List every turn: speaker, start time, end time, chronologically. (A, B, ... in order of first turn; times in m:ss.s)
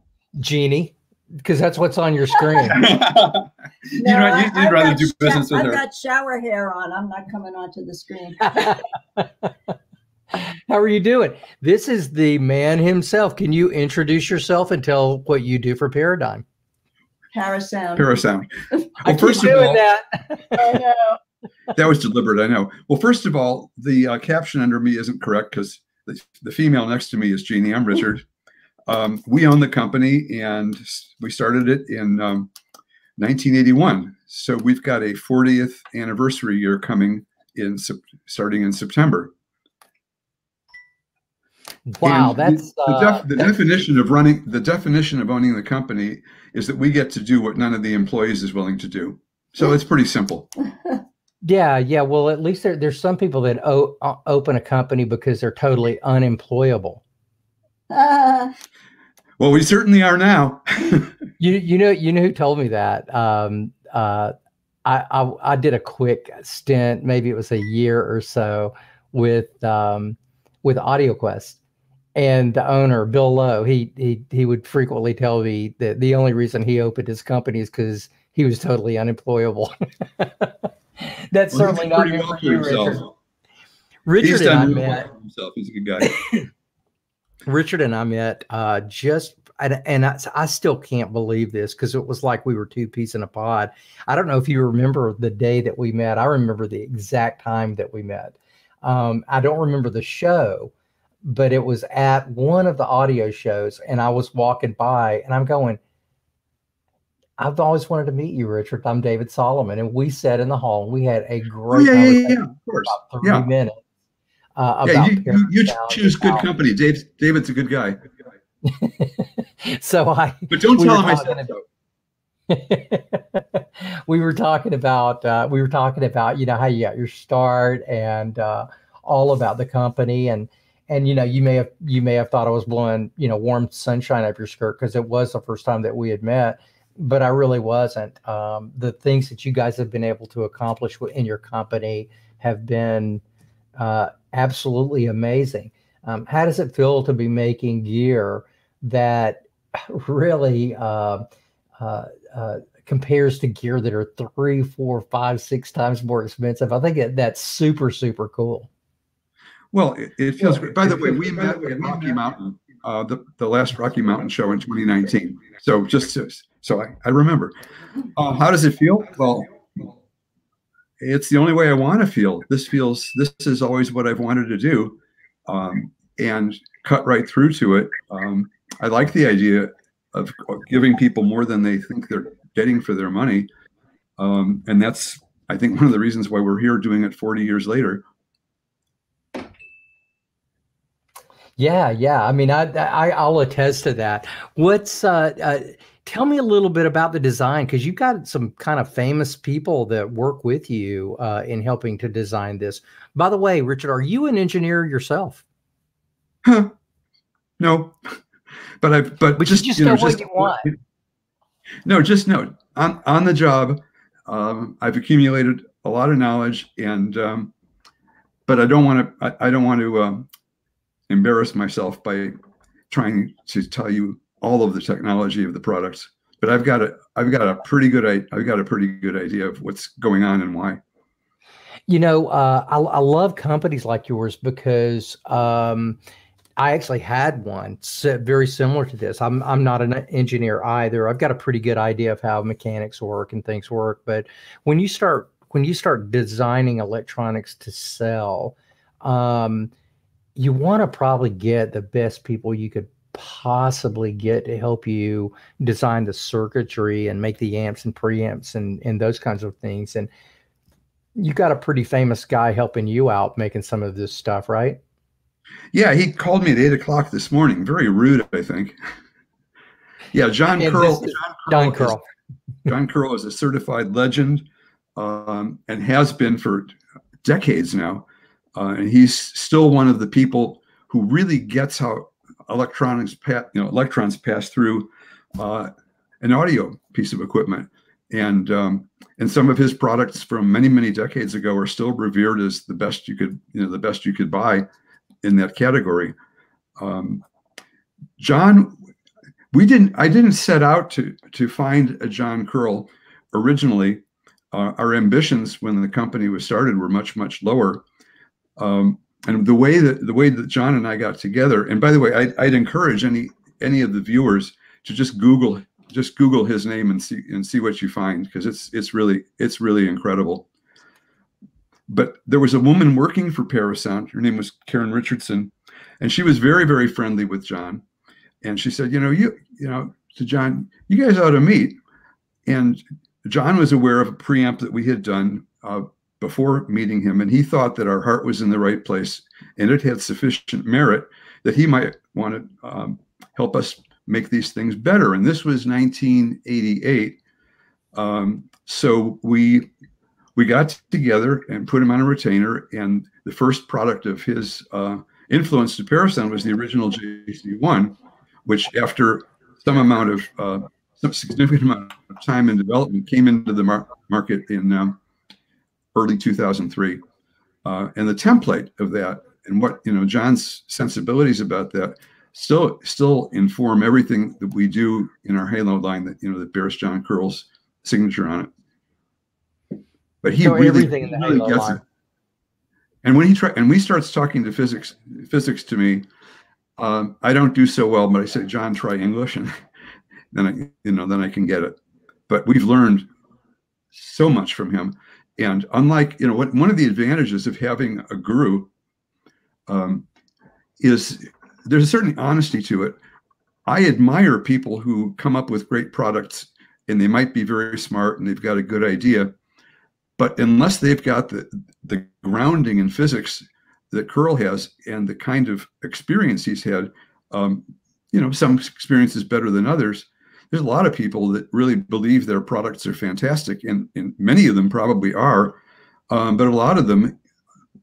0:00.4-0:03.0 A
0:02.7-0:05.8 B
0:04.0-0:08.8 C
0:08.5-0:09.5 A
0:10.4-0:16.4 A
0:17.3-0:18.1 C
0:18.0-0:18.5 B
0:19.0-0:19.8 B
0:19.0-0:20.7 A
0:20.6-0:21.2 C
0:21.8-0:28.2 B
0:28.9-0:32.5 B
0:33.2-0:39.3 B
0:41.9-0:43.5 A
0:42.0-0:50.5 B
0:51.4-0:57.0 A
0:57.9-0:58.6 C
0:59.4-1:01.1 B
1:01.4-1:04.3 A
1:04.8-1:11.6 A
1:12.2-1:23.0 A
1:21.5-1:23.1 B
1:24.1-1:25.1 A
1:24.2-1:26.2 B
1:27.5-1:40.7 A
1:41.2-1:45.8 A
1:47.4-1:53.8 A
1:51.7-1:53.5 B
1:54.6-1:56.5 A
1:54.8-1:58.0 B
1:58.6-2:01.5 A
2:00.5-2:01.6 B
2:02.5-2:23.2 A
2:23.8-2:31.3 A
2:31.8-2:38.7 A
2:39.7-2:47.5 B
2:40.7-2:42.0 A
2:48.1-2:49.9 B
2:51.0-3:03.5 B
3:04.2-3:08.0 B
3:11.6-3:25.4 A
3:26.4-3:26.7 B
3:27.6-3:28.2 B
3:28.8-3:30.8 B
3:29.4-3:30.7 A
3:31.8-3:37.5 B
3:38.5-3:40.3 B
3:41.1-3:42.4 B
3:42.9-3:50.8 B
3:51.9-3:56.0 A
3:56.6-4:09.7 A
4:10.4-4:20.1 A
4:21.2-4:24.8 A
4:25.7-4:28.8 B
4:30.1-4:32.0 B
4:30.6-4:32.0 A
4:32.7-4:54.6 B
4:55.2-4:56.1 B
4:56.8-4:57.2 B
4:58.2-4:58.8 B
4:59.5-5:07.8 B
5:08.6-5:20.5 B
5:21.9-5:27.8 B
5:28.4-5:31.8 B
5:32.5-5:47.2 B
5:47.9-5:49.7 B
5:50.4-6:05.0 B
6:05.9-6:07.0 B
6:07.6-6:18.5 B
6:20.2-6:21.8 B
6:20.4-6:21.8 A
6:23.0-6:26.1 B
6:26.8-6:29.5 B
6:30.3-6:31.8 B
6:32.3-6:33.1 B
6:33.9-6:38.7 B
6:39.7-6:40.1 B
6:40.8-6:43.0 B
6:43.6-6:49.3 B
6:50.2-7:05.6 B
7:06.1-7:07.2 B